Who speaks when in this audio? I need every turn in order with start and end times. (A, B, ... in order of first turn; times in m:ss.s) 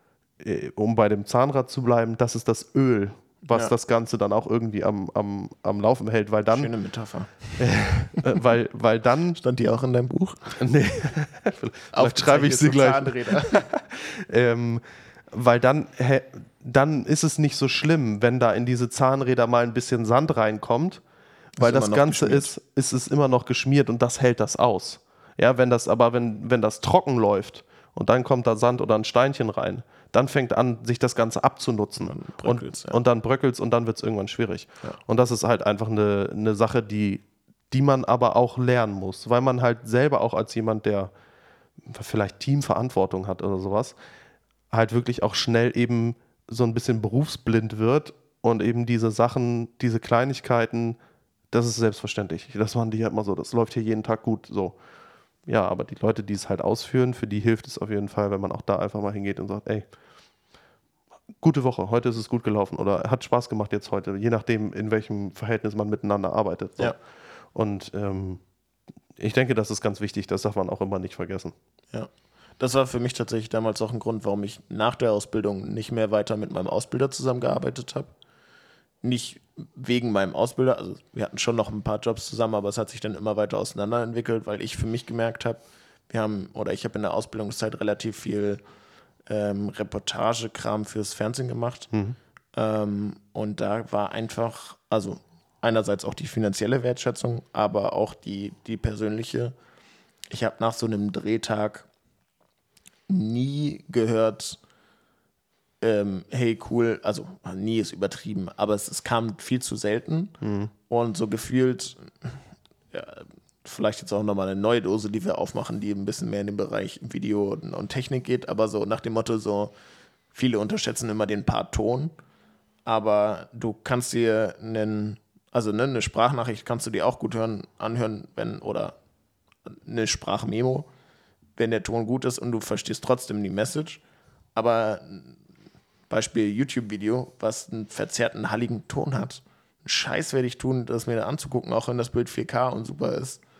0:00.4-0:06.7 A
0:06.5-0:07.7 B
0:07.6-0:09.4 A
0:09.4-0:10.6 B
0:10.6-0:21.0 A
0:11.9-0:13.7 B
0:21.6-0:22.5 B
0:21.6-0:41.1 A
0:32.0-0:33.0 B
0:41.8-0:44.0 A
0:44.7-0:51.0 A
0:51.5-0:54.8 A
0:55.4-0:59.8 A
1:01.4-1:07.0 A
1:07.5-1:08.4 A
1:09.2-1:11.5 A
1:11.9-1:18.1 B
1:19.0-1:28.6 B
1:29.3-1:31.9 B
1:31.9-1:32.2 A
1:32.5-1:39.5 B
1:40.3-1:41.9 B
1:43.1-1:44.6 B
1:45.8-1:50.3 B
1:50.4-1:50.7 A
1:50.9-1:52.4 B
1:52.9-1:59.7 B
2:00.3-2:02.1 B
2:02.8-2:09.0 B
2:09.7-2:10.9 B
2:11.6-2:14.0 B
2:14.6-2:15.4 B
2:16.1-2:23.4 B